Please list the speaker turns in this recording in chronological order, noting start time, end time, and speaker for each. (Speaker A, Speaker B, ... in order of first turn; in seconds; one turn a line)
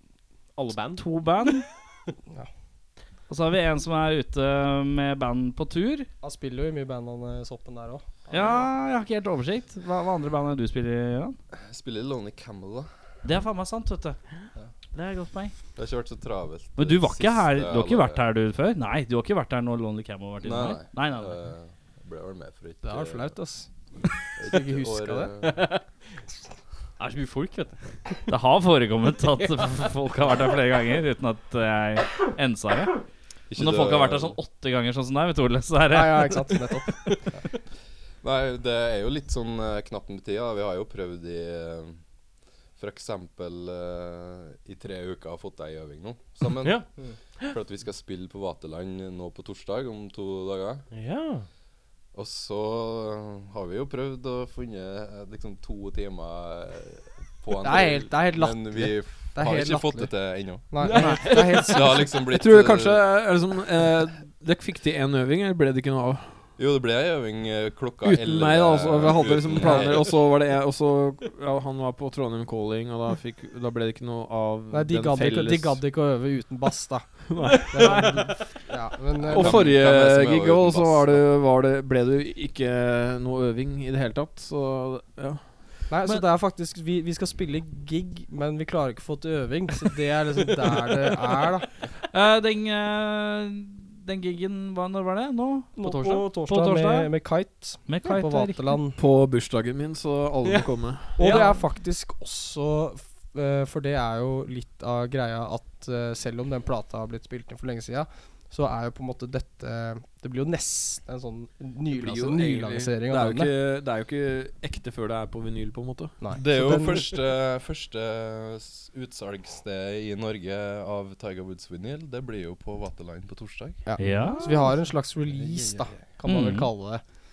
Speaker A: 0.6-1.0
Speaker B: 0.9-1.7
Speaker B: 3.3-6.1
Speaker C: 6.2-8.7
Speaker B: 8.3-11.4
Speaker A: 8.4-8.6
Speaker D: 11.6-12.9
Speaker B: 13.2-14.2
Speaker B: 14.9-15.5
Speaker D: 15.8-18.2
Speaker B: 16.8-21.3
Speaker D: 20.4-23.4
Speaker C: 22.8-23.7
Speaker D: 24.4-25.6
Speaker C: 24.4-25.4
Speaker A: 25.4-25.9
Speaker A: 27.0-28.2
Speaker B: 28.3-36.5
Speaker D: 33.5-34.4
Speaker C: 35.9-37.2
Speaker D: 38.2-42.0
Speaker D: 42.7-50.9
Speaker A: 46.6-47.5
Speaker A: 50.9-51.5
Speaker D: 52.1-63.2
Speaker C: 57.6-62.2
Speaker B: 60.9-61.7
Speaker E: 62.1-66.5
Speaker D: 66.6-70.2
Speaker E: 68.0-75.8
Speaker C: 69.6-69.9
Speaker C: 74.7-79.8
Speaker E: 77.3-78.1
Speaker B: 77.5-78.5
Speaker D: 79.3-81.2
Speaker E: 79.3-85.6
Speaker C: 85.9-91.7
Speaker B: 92.1-97.1
Speaker C: 95.8-99.0
Speaker B: 97.8-98.7
Speaker E: 99.0-101.3
Speaker C: 101.2-113.5
Speaker A: 101.2-101.6
Speaker B: 101.2-101.5
Speaker E: 111.9-116.2
Speaker C: 116.2-117.1
Speaker D: 116.3-123.8
Speaker C: 123.8-127.0
Speaker B: 124.0-124.7
Speaker D: 125.3-126.1
Speaker B: 126.2-126.7